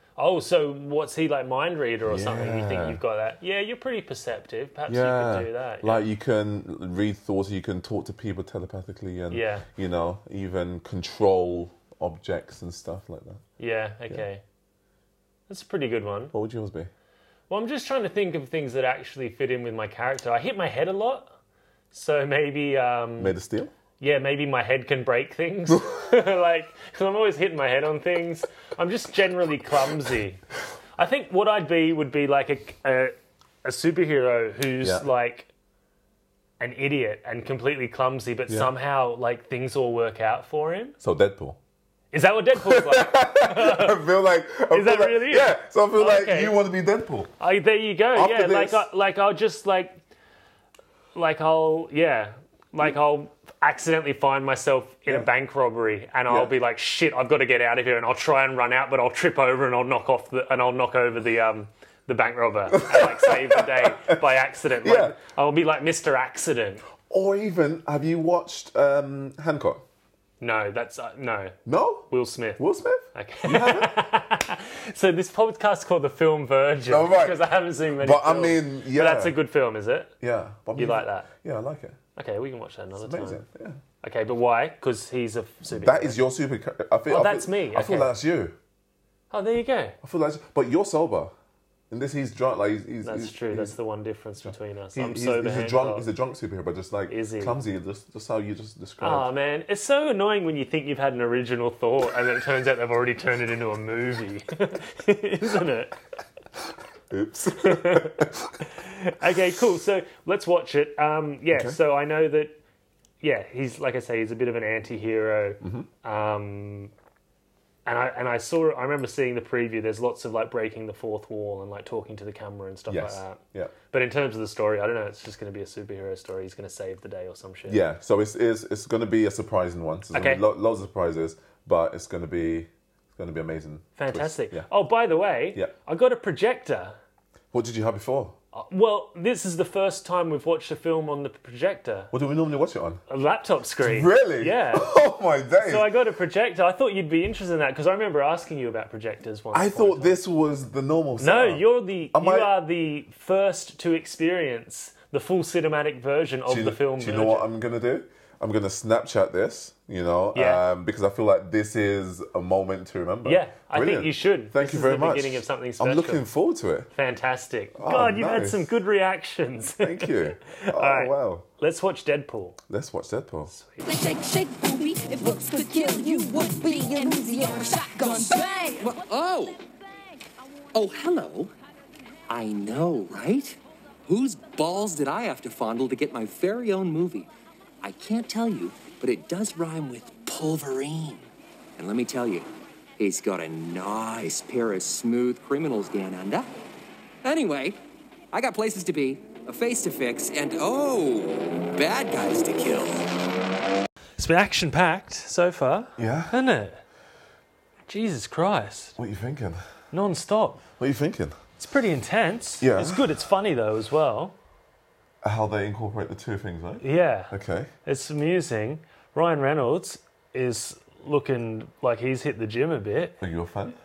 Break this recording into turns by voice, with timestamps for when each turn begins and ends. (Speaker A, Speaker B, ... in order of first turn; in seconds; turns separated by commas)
Speaker A: 0.2-6.0, Speaker B: 2.0-3.0, Speaker B: 4.9-13.4, Speaker A: 9.3-9.7, Speaker A: 13.6-14.4, Speaker A: 15.5-16.3, Speaker B: 16.3-16.9, Speaker A: 17.5-21.3, Speaker A: 21.9-23.4, Speaker B: 23.2-23.7, Speaker A: 24.0-30.4, Speaker A: 31.0-35.5, Speaker B: 34.8-35.1, Speaker A: 36.6-41.0, Speaker B: 41.0-41.6, Speaker A: 42.1-44.0, Speaker B: 42.6-47.3, Speaker A: 44.7-46.6, Speaker A: 47.4-50.0, Speaker B: 48.1-48.9, Speaker A: 51.1-66.8, Speaker B: 56.3-56.5, Speaker B: 62.7-64.2, Speaker B: 64.8-65.2, Speaker B: 67.0-69.8, Speaker A: 70.4-71.6, Speaker B: 71.7-73.9, Speaker A: 72.1-72.6, Speaker A: 73.1-80.1, Speaker B: 76.9-77.4, Speaker B: 78.0-79.4, Speaker B: 80.2-82.0, Speaker A: 80.8-81.3, Speaker A: 82.2-83.4, Speaker B: 83.0-83.8, Speaker A: 84.0-86.2, Speaker B: 85.7-88.6, Speaker A: 87.1-88.1, Speaker A: 89.3-90.0, Speaker B: 90.0-91.3, Speaker B: 91.9-93.8, Speaker A: 93.0-96.1, Speaker B: 94.4-99.3, Speaker A: 97.1-97.6, Speaker A: 99.0-106.0, Speaker B: 107.1-108.6, Speaker A: 107.5-112.6, Speaker B: 111.5-111.8, Speaker A: 113.2-116.9, Speaker B: 115.6-115.9, Speaker A: 117.9-127.8, Speaker B: 122.9-123.8, Speaker B: 127.7-134.7, Speaker A: 130.1-130.4, Speaker A: 134.0-137.0, Speaker B: 137.5-138.4, Speaker A: 138.5-142.1, Speaker B: 142.1-143.0, Speaker A: 143.1-144.9, Speaker B: 143.8-145.9, Speaker A: 145.6-150.2, Speaker B: 149.5-152.5, Speaker A: 151.2-157.5, Speaker B: 156.5-166.9, Speaker A: 160.3-160.6, Speaker A: 163.2-166.2, Speaker A: 166.9-172.6, Speaker B: 167.8-168.7, Speaker B: 169.8-171.5, Speaker B: 172.7-173.5, Speaker A: 173.5-173.8, Speaker C: 173.8-179.0, Speaker D: 178.0-179.6, Speaker D: 180.7-181.5, Speaker D: 182.3-187.3, Speaker D: 187.8-196.5, Speaker D: 197.2-197.8, Speaker D: 198.3-203.1, Speaker A: 204.2-206.8, Speaker B: 206.0-206.4, Speaker A: 207.9-209.0, Speaker B: 209.0-209.7, Speaker A: 209.9-210.6, Speaker B: 210.8-211.4, Speaker A: 211.6-214.3, Speaker B: 212.6-213.1, Speaker B: 215.2-217.7, Speaker A: 216.8-217.3, Speaker A: 217.8-223.2, Speaker B: 223.2-223.8